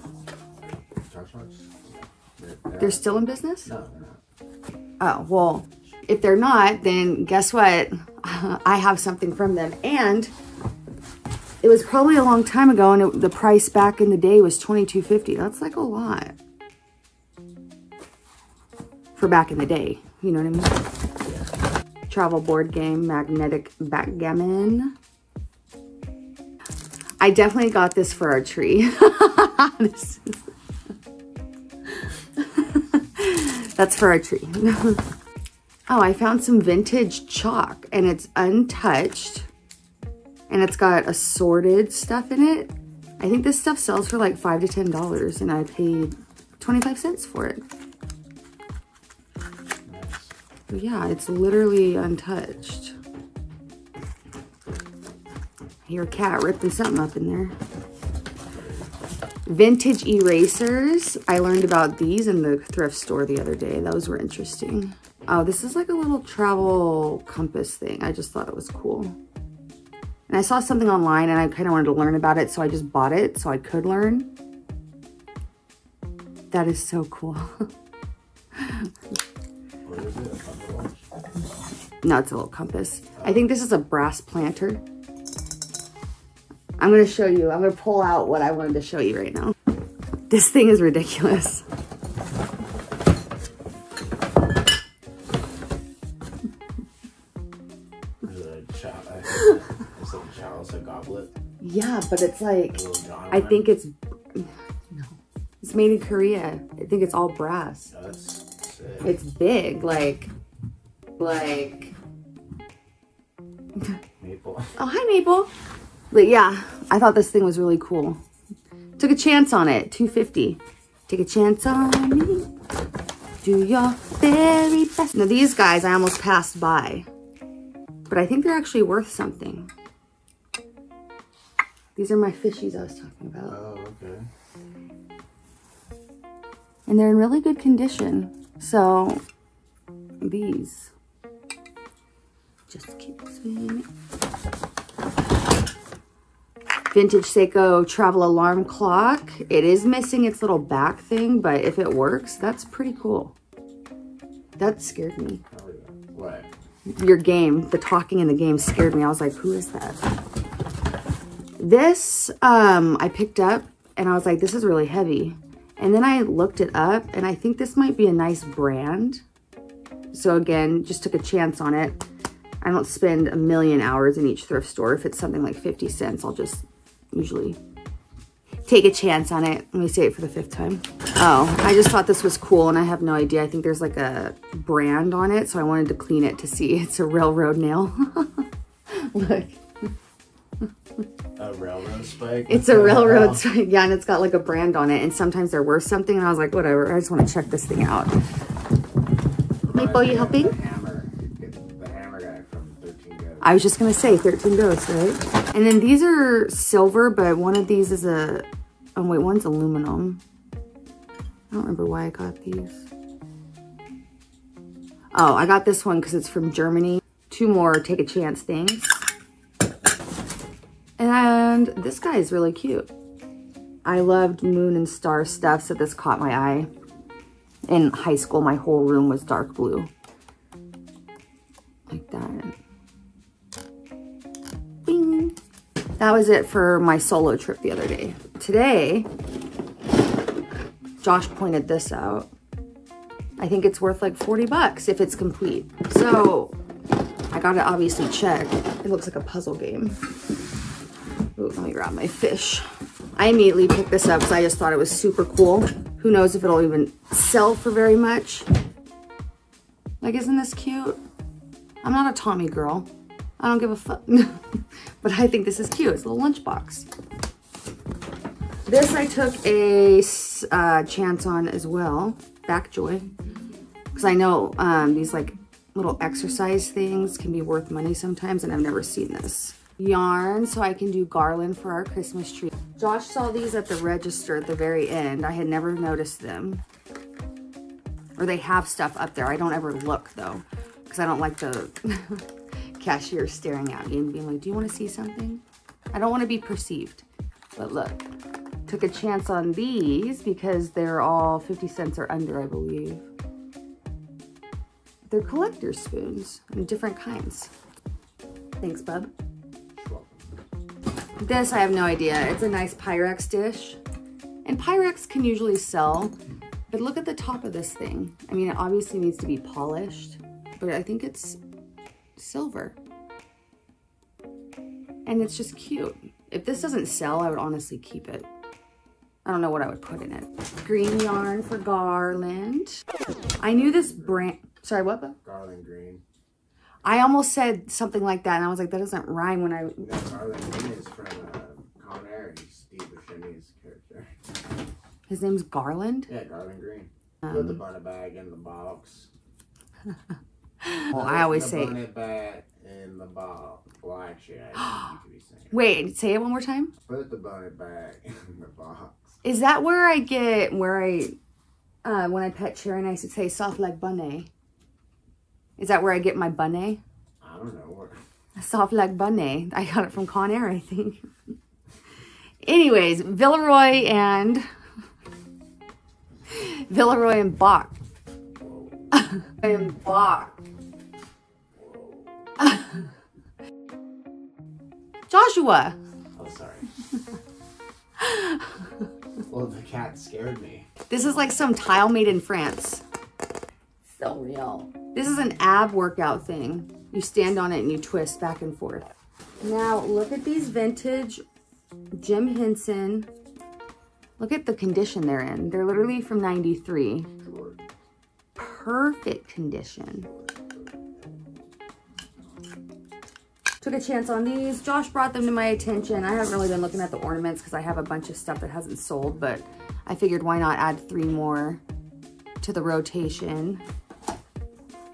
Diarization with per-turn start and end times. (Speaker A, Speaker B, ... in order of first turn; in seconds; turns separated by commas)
Speaker A: 0.6-3.1, Speaker B: 2.8-3.7, Speaker A: 3.6-4.2, Speaker B: 5.0-10.3, Speaker B: 11.6-16.4, Speaker B: 19.1-20.7, Speaker B: 22.1-24.9, Speaker B: 27.2-30.4, Speaker B: 32.0-35.0, Speaker B: 35.9-39.5, Speaker B: 40.5-47.6, Speaker A: 49.9-50.3, Speaker B: 50.7-53.0, Speaker B: 55.9-57.5, Speaker A: 58.5-58.9, Speaker B: 59.5-69.2, Speaker B: 70.3-74.3, Speaker B: 76.5-77.6, Speaker B: 78.5-78.9, Speaker A: 79.8-81.0, Speaker B: 82.0-84.8, Speaker B: 86.8-89.5, Speaker B: 90.3-91.6, Speaker A: 98.2-101.3, Speaker B: 101.6-107.9, Speaker A: 102.7-103.7, Speaker A: 107.9-109.1, Speaker B: 109.0-110.3, Speaker B: 111.2-111.9, Speaker A: 114.2-114.8, Speaker B: 114.8-115.5, Speaker B: 116.1-118.2, Speaker B: 119.0-122.5, Speaker B: 123.4-127.1, Speaker B: 128.1-129.7, Speaker B: 131.9-133.6, Speaker A: 133.5-134.3, Speaker B: 136.9-139.2, Speaker B: 140.2-140.9, Speaker B: 142.7-143.9, Speaker B: 146.9-153.3, Speaker B: 154.6-155.4, Speaker A: 155.5-156.5, Speaker B: 156.9-160.0, Speaker B: 161.6-169.2, Speaker B: 170.1-172.0, Speaker B: 172.6-177.6, Speaker B: 178.7-189.6, Speaker A: 191.3-193.4, Speaker B: 192.5-198.1, Speaker A: 199.6-203.6, Speaker B: 199.7-200.6, Speaker B: 203.4-210.2, Speaker B: 211.5-212.9, Speaker B: 215.1-219.0, Speaker B: 221.0-222.9, Speaker B: 223.8-226.7, Speaker B: 227.7-229.9, Speaker B: 231.9-232.6, Speaker B: 234.8-235.3, Speaker B: 236.0-239.1, Speaker B: 241.0-242.3, Speaker B: 243.4-246.6, Speaker B: 247.3-250.0, Speaker B: 251.3-252.6, Speaker B: 253.2-258.5, Speaker B: 260.0-261.0, Speaker B: 261.8-262.9, Speaker B: 263.4-264.4, Speaker B: 265.0-266.9, Speaker B: 268.6-273.1, Speaker B: 273.9-286.6, Speaker B: 288.2-292.2, Speaker B: 292.8-298.0, Speaker B: 298.6-303.1, Speaker B: 305.1-307.5, Speaker B: 308.6-309.1, Speaker A: 309.7-310.3, Speaker B: 311.2-313.8, Speaker B: 314.4-316.1, Speaker B: 316.7-321.4, Speaker B: 322.2-322.8, Speaker B: 325.1-328.3, Speaker B: 329.2-332.8, Speaker B: 333.4-335.1, Speaker A: 333.4-334.3, Speaker A: 335.2-336.0, Speaker B: 336.8-339.9, Speaker A: 339.8-344.1, Speaker B: 345.1-346.1, Speaker A: 346.1-349.1, Speaker B: 350.6-351.8, Speaker A: 350.9-355.6, Speaker B: 355.5-356.7, Speaker A: 356.8-359.2, Speaker B: 359.2-361.1, Speaker B: 361.8-364.3, Speaker B: 365.6-366.8, Speaker A: 367.2-368.0, Speaker B: 368.4-371.0, Speaker B: 372.4-374.4, Speaker B: 376.3-377.7, Speaker A: 378.4-379.1, Speaker B: 379.2-380.4, Speaker A: 381.6-382.4, Speaker B: 385.1-385.8, Speaker A: 386.1-386.7, Speaker A: 389.3-390.7, Speaker B: 390.9-392.8, Speaker B: 393.8-398.9, Speaker B: 399.4-401.2, Speaker B: 402.0-403.1, Speaker B: 404.2-407.1, Speaker A: 407.2-407.6, Speaker B: 408.4-410.1, Speaker A: 410.1-411.3, Speaker B: 413.6-421.6, Speaker B: 422.4-423.6